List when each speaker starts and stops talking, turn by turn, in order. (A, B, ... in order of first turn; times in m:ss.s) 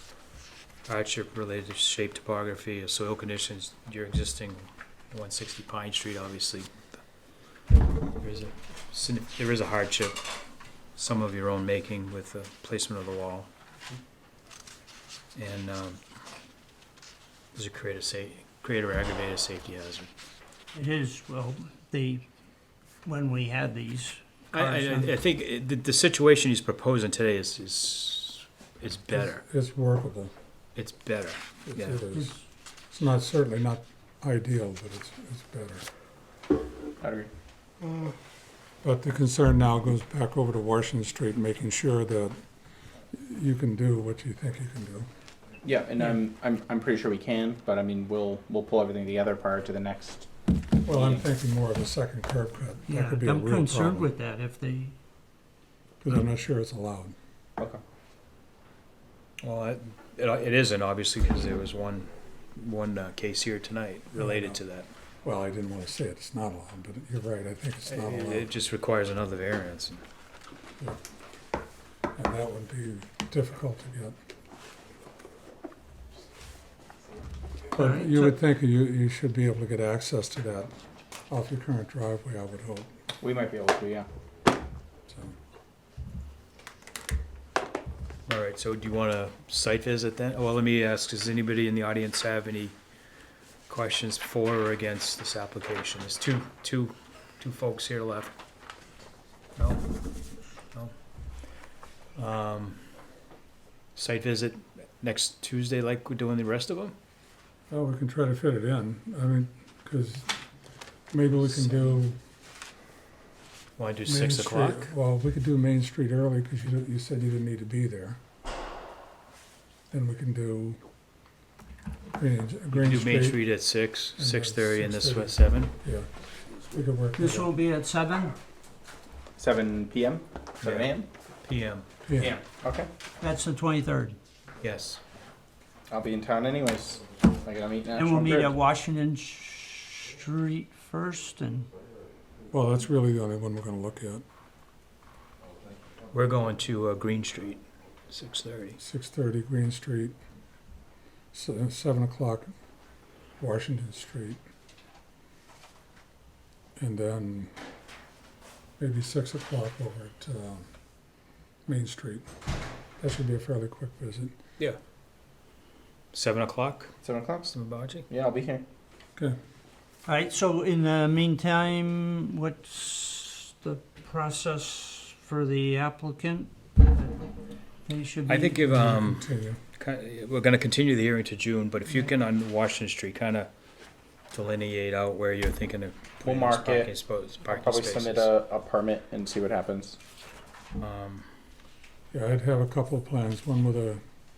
0:00.9-0:06.9 A
0:08.2-0:10.3 A
0:11.0-0:13.5 A
0:15.3-0:16.0 A
0:17.5-0:20.1 A
0:20.7-0:22.2 B
0:23.0-0:25.1 B
0:24.5-0:29.4 A
0:29.1-0:30.3 C
0:30.7-0:32.0 A
0:31.6-0:32.4 C
0:32.1-0:32.4 B
0:32.9-0:35.8 C
0:37.0-0:37.3 D
0:37.8-0:38.1 C
0:38.8-0:42.4 C
0:43.1-0:45.1 C
0:45.6-0:50.2 D
0:50.8-0:54.1 C
0:50.9-0:51.2 D
0:52.9-0:54.9 B
0:56.0-0:57.2 C
0:59.4-1:04.9 A
1:04.2-1:04.6 C
1:05.2-1:08.5 C
1:07.8-1:10.0 A
1:12.1-1:14.2 C
1:17.7-1:20.7 C
1:17.8-1:18.3 B
1:21.3-1:22.9 C
1:23.2-1:24.1 D
1:25.1-1:25.3 C
1:28.3-1:32.8 A
1:33.7-1:38.3 A
1:39.6-1:39.9 A
1:42.2-1:42.8 A
1:43.9-1:46.9 A
1:47.7-1:50.3 C
1:51.1-1:52.2 C
1:51.4-1:52.0 A
1:53.8-1:54.9 A
1:54.1-1:58.2 C
1:59.9-2:00.8 C
2:02.1-2:03.5 C
2:02.7-2:05.7 A
2:04.2-2:06.1 C
2:06.6-2:07.5 C
2:07.2-2:08.4 B
2:09.4-2:11.1 D
2:10.6-2:10.9 A
2:11.4-2:11.8 A
2:12.0-2:12.3 C
2:12.2-2:12.9 D
2:13.2-2:14.2 B
2:14.6-2:15.0 A
2:15.9-2:18.5 D
2:17.9-2:21.7 B
2:22.5-2:24.2 C
2:26.1-2:28.8 A
2:28.8-2:30.2 C
2:31.3-2:32.5 C
2:33.4-2:34.4 C
2:36.8-2:37.5 C
2:38.8-2:40.7 C
2:41.6-2:42.3 C
2:43.0-2:44.4 C
2:46.1-2:46.9 A
2:47.0-2:47.5 D
2:47.5-2:48.1 A
2:48.1-2:48.6 D
2:50.0-2:57.1 B
2:57.8-2:58.8 B
2:58.3-3:03.5 A
2:58.6-2:59.6 C
3:04.3-3:08.3 A
3:06.2-3:10.0 D
3:10.8-3:11.3 A
3:12.1-3:14.0 C